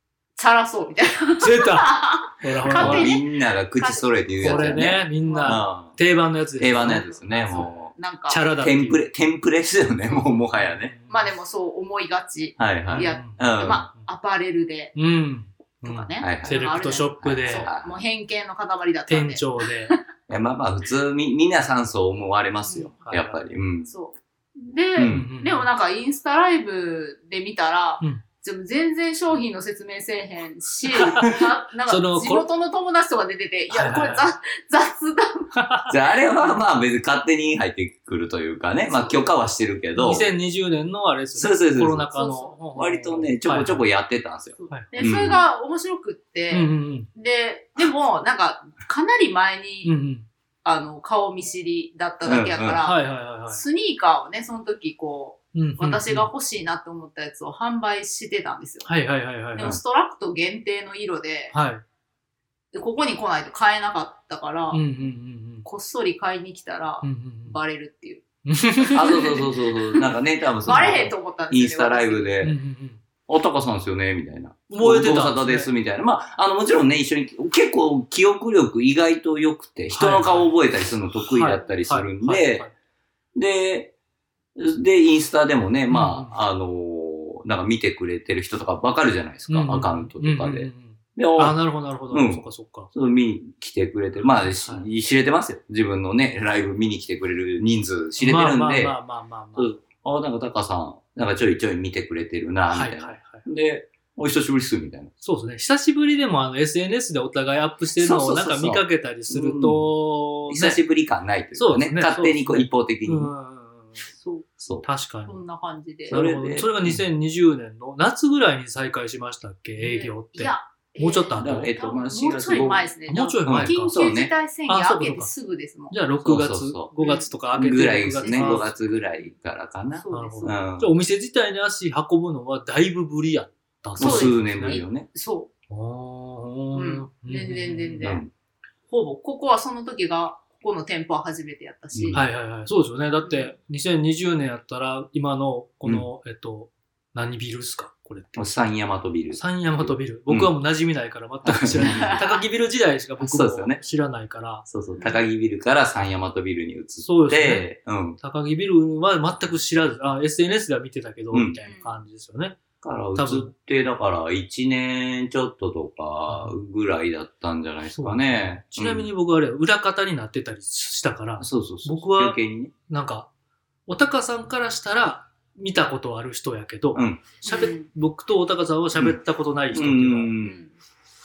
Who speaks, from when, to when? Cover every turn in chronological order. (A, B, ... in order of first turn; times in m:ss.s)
0:00.4-0:05.7 A
0:01.4-0:03.1 B
0:02.7-0:06.0 C
0:04.4-0:09.0 B
0:06.6-0:07.9 C
0:06.9-0:08.5 A
0:08.6-0:10.9 C
0:10.5-0:11.3 B
0:11.1-0:15.0 A
0:12.6-0:13.9 C
0:12.9-0:14.1 B
0:15.0-0:17.7 B
0:15.8-0:20.0 A
0:16.2-0:16.7 C
0:17.2-0:18.0 C
0:19.1-0:19.9 B
0:20.3-0:23.9 C
0:22.6-0:23.1 A
0:23.0-0:23.4 B
0:23.9-0:35.6 A
0:25.0-0:25.3 C
0:25.1-0:25.7 B
0:30.9-0:31.4 B
0:31.9-0:32.5 B
0:33.7-0:34.3 B
0:35.6-0:35.9 B
0:35.9-0:40.3 C
0:38.8-0:39.3 A
0:40.0-0:43.9 B
0:41.4-0:42.1 C
0:42.1-0:42.6 A
0:42.8-0:45.4 C
0:44.6-0:50.0 A
0:46.5-0:47.1 B
0:49.8-0:50.3 B
0:50.6-0:58.9 A
0:52.2-0:52.8 C
0:52.8-0:53.6 B
0:55.5-0:56.3 B
0:58.9-0:59.7 B
0:59.5-1:01.5 A
1:01.5-1:01.8 B
1:02.7-1:04.8 A
1:04.7-1:05.7 B
1:05.6-1:08.2 A
1:07.0-1:07.6 B
1:08.5-1:09.4 B
1:08.8-1:10.1 A
1:09.0-1:12.6 C
1:10.6-1:12.3 A
1:10.7-1:11.0 B
1:12.4-1:13.0 B
1:13.3-1:22.7 C
1:14.7-1:15.7 B
1:19.9-1:20.5 B
1:21.2-1:22.7 B
1:23.4-1:23.9 C
1:24.6-1:39.0 C
1:25.9-1:26.4 B
1:29.5-1:32.9 B
1:34.2-1:34.9 B
1:38.2-1:39.7 B
1:39.6-1:45.1 C
1:42.7-1:43.4 B
1:45.2-1:50.8 B
1:48.0-1:49.9 C
1:50.5-1:53.3 C
1:51.6-1:54.1 B
1:54.1-1:54.5 A
1:54.8-1:55.4 B
1:55.3-1:56.2 A
1:56.1-2:01.7 B
1:56.1-1:57.0 C
1:59.8-2:05.9 A
2:01.4-2:02.9 C
2:03.1-2:04.0 B
2:03.5-2:04.3 C
2:04.7-2:05.3 B
2:05.9-2:08.7 B
2:06.2-2:06.9 C
2:07.0-2:07.3 A
2:07.6-2:10.9 C
2:08.2-2:09.3 A
2:10.0-2:10.6 A
2:10.1-2:14.8 B
2:14.0-2:15.1 C
2:14.0-2:15.5 A
2:15.7-2:18.2 B
2:16.7-2:18.2 A
2:18.0-2:18.3 C
2:18.9-2:22.2 A
2:21.9-2:22.2 C
2:22.1-2:28.5 B
2:23.2-2:23.5 A
2:28.4-2:30.5 C
2:29.3-2:34.7 B
2:31.4-2:32.2 C
2:31.8-2:32.4 A
2:33.2-2:33.8 C
2:34.7-2:38.2 C
2:35.0-2:35.2 A
2:37.0-2:37.7 B
2:38.2-2:42.6 B
2:41.3-2:41.6 C
2:41.6-2:42.0 A
2:42.8-2:49.1 C
2:43.2-2:43.5 B
2:46.3-2:46.6 B
2:47.9-2:53.3 B
2:51.4-2:52.7 C
2:53.9-3:00.3 B
2:57.0-2:57.3 C
2:57.4-2:57.9 A
2:59.7-3:00.6 C
3:00.4-3:00.7 A